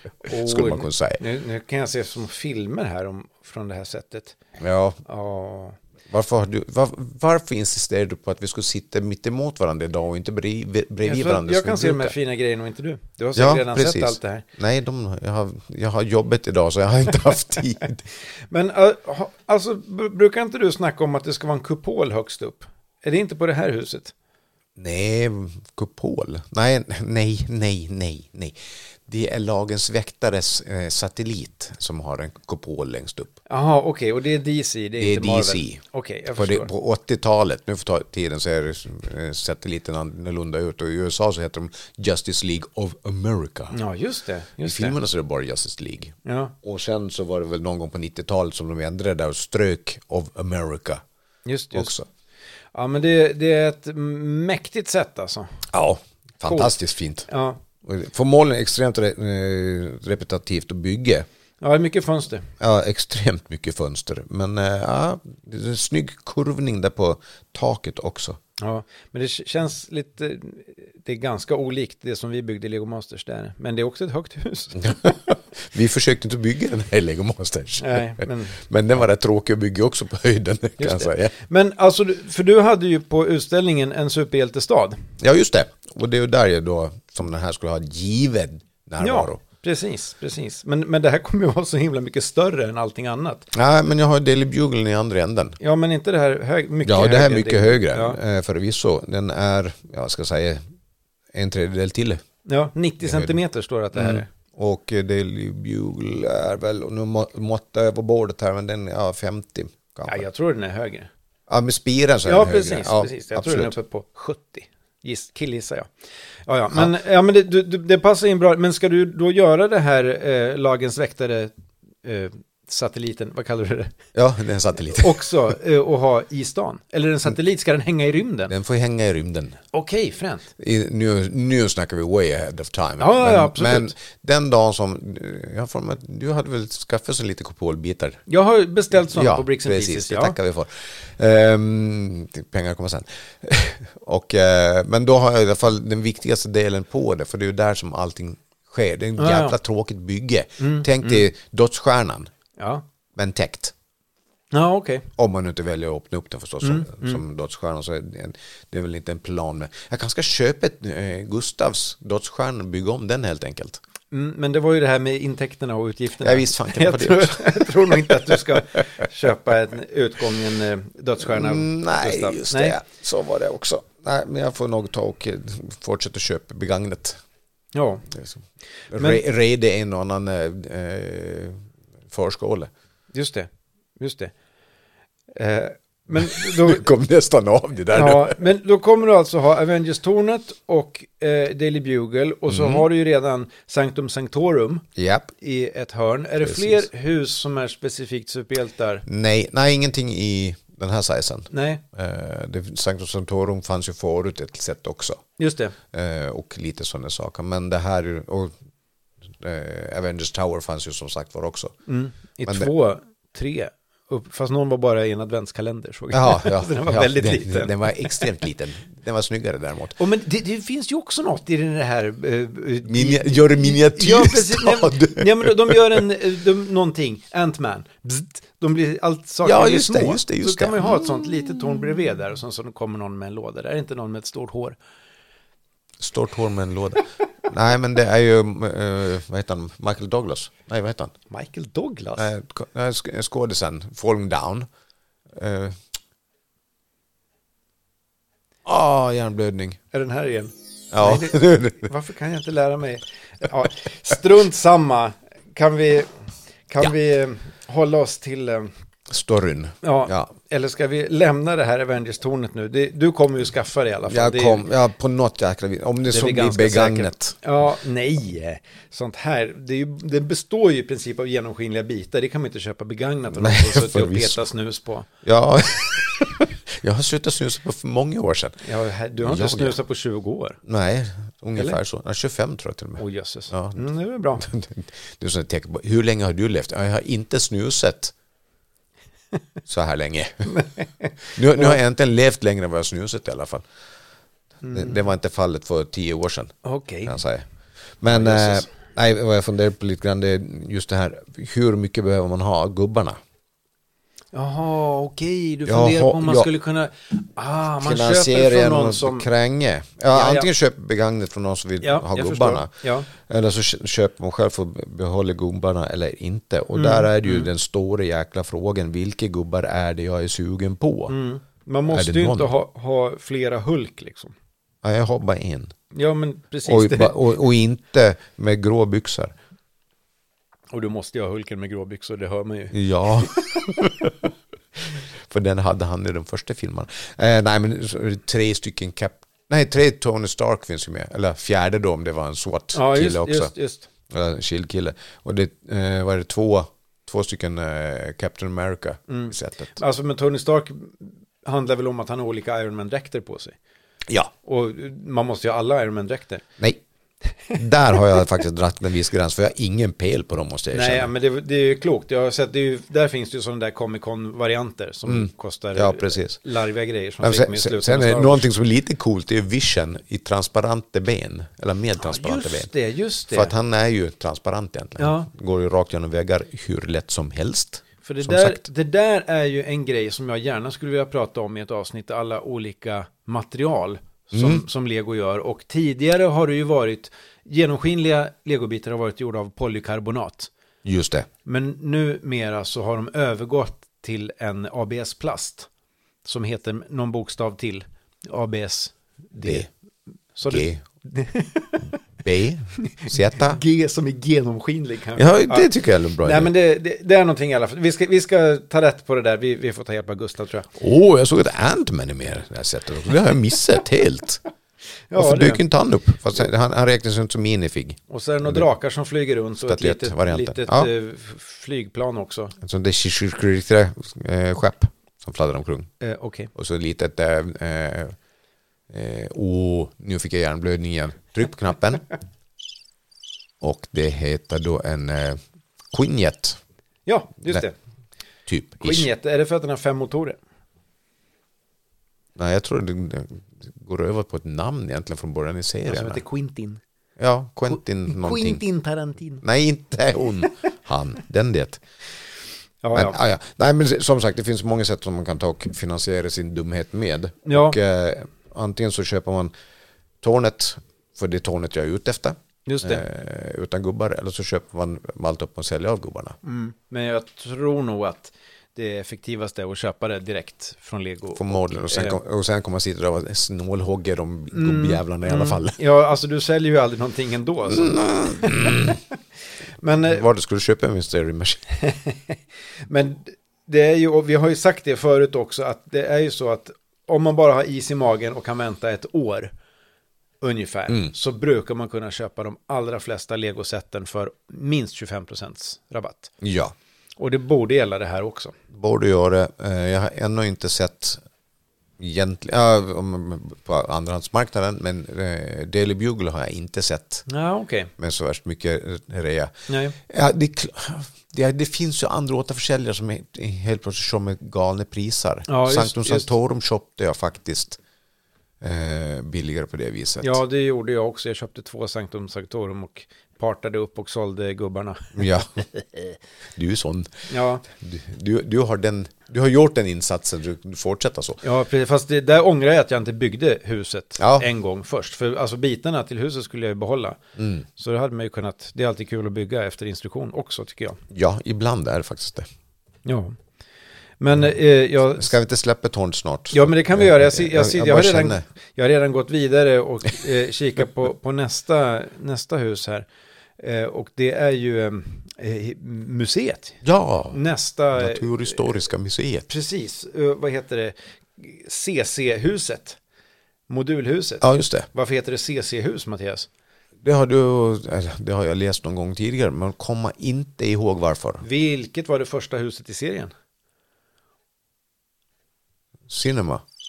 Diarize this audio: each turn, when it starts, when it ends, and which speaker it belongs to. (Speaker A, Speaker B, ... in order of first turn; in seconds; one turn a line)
Speaker A: 0.2-4.4
Speaker B: 0.3-1.2
Speaker B: 4.6-5.0
Speaker A: 5.1-5.8
Speaker B: 6.1-12.2
Speaker A: 11.0-14.4
Speaker B: 13.4-18.0
Speaker A: 18.5-24.1
Speaker B: 24.8-33.4
Speaker A: 33.5-36.7
Speaker B: 35.0-35.8
Speaker B: 36.4-43.8
Speaker A: 43.7-45.0
Speaker B: 44.6-51.0
Speaker A: 46.2-46.5
Speaker A: 51.5-51.9
Speaker B: 51.7-52.1
Speaker A: 52.7-55.6
Speaker B: 55.7-57.3
Speaker A: 56.5-56.8
Speaker A: 57.3-57.6
Speaker B: 57.8-61.3
Speaker A: 61.6-62.5
Speaker B: 62.6-68.4
Speaker A: 68.6-75.1
Speaker B: 74.8-81.3
Speaker A: 77.8-78.6
Speaker A: 80.8-85.0
Speaker B: 85.2-89.4
Speaker A: 89.0-93.5
Speaker B: 93.5-95.6
Speaker A: 95.6-98.2
Speaker B: 96.8-100.6
Speaker B: 101.3-102.2
Speaker A: 102.5-104.3
Speaker B: 103.0-103.3
Speaker B: 103.9-110.3
Speaker A: 110.1-111.1
Speaker B: 111.5-113.7
Speaker A: 112.2-115.9
Speaker A: 116.5-121.5
Speaker A: 122.0-124.0
Speaker B: 124.2-125.3
Speaker A: 124.9-128.5
Speaker B: 128.5-129.6
Speaker A: 129.7-130.5
Speaker B: 130.6-138.2
Speaker A: 133.0-133.9
Speaker A: 138.3-140.4
Speaker B: 139.0-152.3
Speaker A: 149.2-149.6
Speaker A: 150.6-151.3
Speaker A: 152.6-152.8
Speaker B: 153.2-153.7
Speaker A: 154.5-155.1
Speaker B: 155.2-163.8
Speaker A: 156.6-157.2
Speaker A: 164.1-172.8
Speaker B: 166.2-168.4
Speaker B: 171.2-177.2
Speaker A: 177.8-178.1
Speaker B: 178.1-181.6
Speaker A: 178.9-179.2
Speaker B: 182.1-182.7
Speaker A: 183.1-184.3
Speaker A: 185.3-186.8
Speaker B: 186.1-188.4
Speaker A: 187.9-194.8
Speaker B: 192.5-192.9
Speaker B: 195.0-195.3
Speaker A: 195.4-199.1
Speaker B: 196.4-196.8
Speaker B: 199.1-205.2
Speaker A: 201.5-201.8
Speaker A: 205.4-205.8
Speaker B: 205.9-208.5
Speaker B: 209.3-211.8
Speaker A: 211.9-217.7
Speaker B: 216.1-220.0
Speaker A: 220.0-234.8
Speaker B: 222.9-226.0
Speaker B: 229.4-231.1
Speaker B: 236.0-241.1
Speaker A: 241.3-242.3
Speaker B: 242.2-244.7
Speaker B: 245.3-245.8
Speaker B: 248.7-249.8
Speaker A: 249.9-256.1
Speaker B: 250.9-251.9
Speaker A: 256.7-258.7
Speaker B: 259.1-260.3
Speaker A: 259.8-264.6
Speaker B: 264.1-267.4
Speaker A: 266.1-275.1
Speaker B: 273.3-274.4
Speaker B: 275.2-278.6
Speaker A: 278.6-280.6
Speaker B: 279.2-279.8
Speaker B: 280.6-283.8
Speaker A: 283.0-284.4
Speaker B: 284.4-288.1
Speaker B: 289.7-290.6
Speaker A: 290.5-291.8
Speaker B: 291.4-293.6
Speaker A: 294.6-295.0
Speaker B: 294.7-296.5
Speaker A: 296.6-297.2
Speaker B: 297.1-297.4
Speaker B: 298.0-303.2
Speaker A: 298.1-298.7
Speaker A: 304.3-309.3
Speaker B: 305.7-306.5
Speaker B: 307.8-321.1
Speaker A: 310.1-310.5
Speaker A: 311.8-313.1
Speaker A: 316.7-317.5
Speaker A: 321.1-324.3
Speaker B: 321.9-322.5
Speaker B: 324.8-325.7
Speaker A: 325.9-327.2
Speaker B: 326.7-329.3
Speaker A: 330.7-333.8
Speaker B: 332.7-334.3
Speaker B: 334.9-343.5
Speaker A: 342.7-343.9
Speaker B: 344.1-349.8
Speaker A: 349.1-353.6
Speaker A: 354.4-356.4
Speaker B: 357.5-361.1
Speaker A: 360.7-368.5
Speaker B: 365.1-366.4
Speaker B: 367.2-372.7
Speaker A: 372.0-373.5
Speaker B: 373.3-378.6
Speaker A: 375.0-375.3
Speaker A: 378.0-390.5
Speaker B: 384.3-384.6
Speaker B: 390.9-391.3
Speaker A: 391.4-395.7
Speaker A: 396.2-399.7
Speaker B: 399.4-399.7
Speaker A: 400.4-402.0
Speaker B: 400.5-400.8
Speaker B: 402.2-403.6
Speaker A: 402.8-405.7
Speaker B: 405.2-406.5
Speaker A: 406.2-410.7
Speaker B: 410.8-414.4
Speaker A: 415.1-415.6
Speaker B: 415.1-418.6
Speaker A: 418.1-422.5
Speaker B: 419.7-420.9
Speaker B: 422.6-425.9
Speaker A: 426.0-426.5
Speaker B: 426.6-428.1
Speaker B: 428.9-432.1
Speaker B: 433.6-435.4
Speaker B: 435.9-436.6
Speaker A: 437.1-437.8
Speaker B: 438.5-439.1
Speaker A: 438.8-440.4
Speaker B: 442.4-446.2
Speaker A: 445.9-446.8
Speaker B: 447.2-448.6
Speaker A: 447.7-449.4
Speaker B: 449.4-451.8
Speaker A: 452.8-453.2
Speaker B: 452.9-459.5
Speaker A: 457.5-457.8
Speaker B: 460.2-466.4
Speaker A: 462.7-463.1
Speaker A: 466.4-472.2
Speaker B: 471.4-475.8
Speaker A: 474.5-479.0
Speaker B: 477.7-479.0
Speaker A: 479.8-480.2
Speaker B: 480.0-481.6
Speaker A: 481.8-489.5
Speaker A: 490.4-496.3
Speaker B: 496.4-496.8
Speaker A: 497.2-498.5
Speaker B: 498.7-501.2
Speaker B: 502.0-507.2
Speaker A: 507.3-507.9
Speaker B: 508.0-517.8
Speaker A: 509.7-510.0
Speaker A: 515.5-516.3
Speaker B: 518.6-520.4
Speaker A: 520.2-525.2
Speaker B: 525.1-525.6
Speaker B: 526.5-531.4
Speaker A: 527.3-527.6
Speaker A: 531.4-537.2
Speaker B: 534.2-534.5
Speaker B: 537.4-537.6
Speaker A: 537.8-541.0
Speaker B: 541.1-542.5
Speaker A: 543.0-543.4
Speaker A: 544.2-545.3
Speaker B: 545.2-548.4
Speaker A: 546.5-553.1
Speaker A: 553.6-556.8
Speaker B: 556.8-557.4
Speaker A: 557.3-558.6
Speaker B: 558.0-559.5
Speaker A: 559.5-563.0
Speaker A: 563.7-566.5
Speaker B: 564.4-564.9
Speaker B: 567.0-571.4
Speaker A: 571.4-573.3
Speaker B: 576.1-576.6